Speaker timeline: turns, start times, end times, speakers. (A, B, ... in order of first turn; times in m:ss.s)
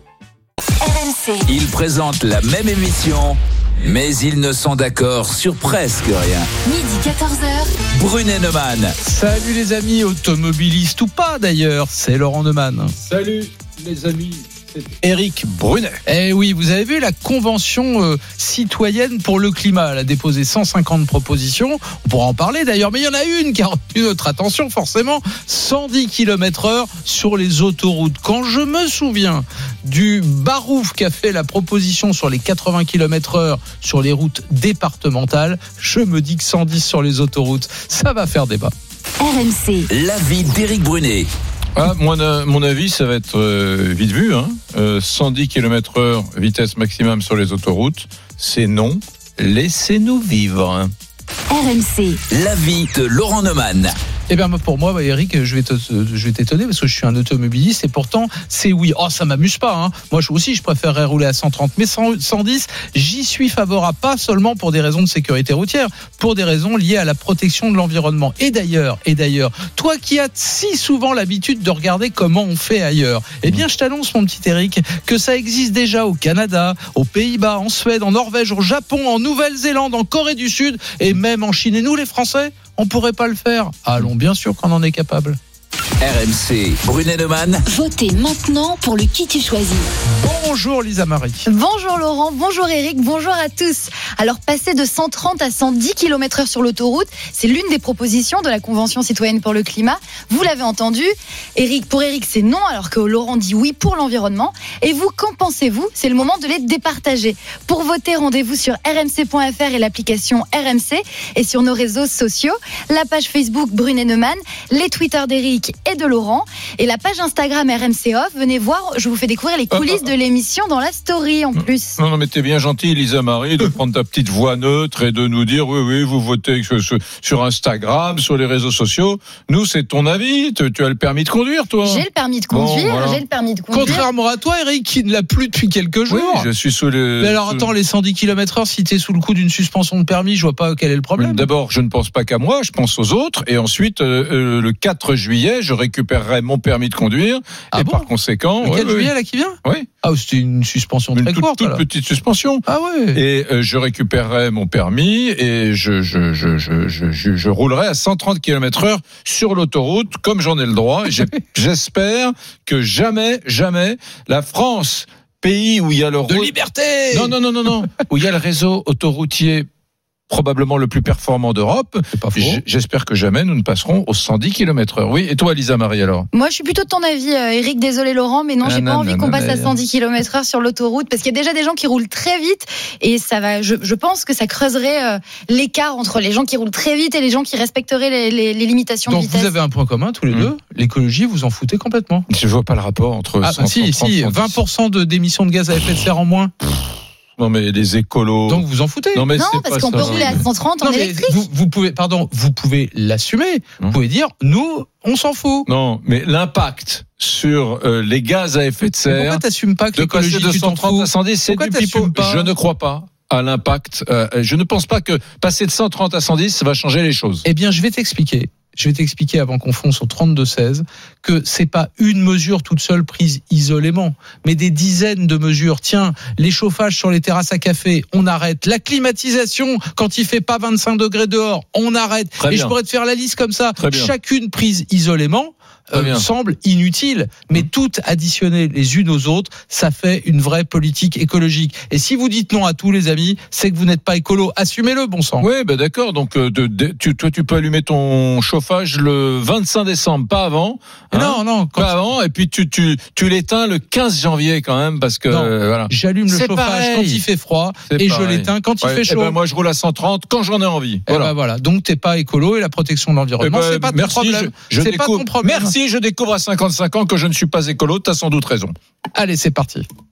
0:00.8-0:01.4 A
0:01.5-0:06.5 B
0:06.6-0:07.7 A
0:07.9-0:08.9 B
0:09.0-0:12.9 C
0:13.0-0:16.0 D
0:16.0-0:38.7 C
0:39.2-0:39.9 A
0:39.9-0:41.3 B
0:41.8-0:50.9 D
0:51.5-0:52.2 A
0:52.3-0:53.9 B
0:54.3-1:25.4 C
1:26.0-1:27.6 B
1:27.7-1:29.8 A
1:30.2-1:31.4 C
1:31.4-2:02.0 E
1:59.7-2:00.0 D
2:01.6-2:13.2 D
2:11.8-2:14.0 E
2:13.7-2:16.5 C
2:16.1-2:17.7 D
2:17.2-2:21.5 C
2:21.2-2:29.1 D
2:27.7-2:28.1 C
2:28.6-2:31.8 C
2:31.1-2:46.5 D
2:32.6-2:33.2 C
2:46.3-2:47.3 C
2:47.1-2:49.7 D
2:50.3-2:56.3 D
2:52.1-2:52.6 C
2:56.3-3:09.5 E
2:58.6-2:59.8 D
3:09.1-3:12.2 C
3:12.3-3:14.6 D
3:13.4-3:16.5 C
3:17.4-3:20.4 D
3:18.5-3:19.3 C
3:19.3-3:21.4 E
3:19.9-3:25.7 C
3:25.7-3:29.4 D
3:29.1-3:32.5 C
3:30.0-3:37.4 D
3:37.4-4:05.4 C
3:52.4-3:52.7 D
3:53.8-3:54.1 D
3:55.9-3:56.2 D
4:05.4-4:17.2 D
4:11.1-4:11.9 C
4:15.3-4:19.4 C
4:17.9-4:21.3 D
4:21.1-4:25.7 C
4:23.4-4:28.7 D
4:29.1-4:29.8 C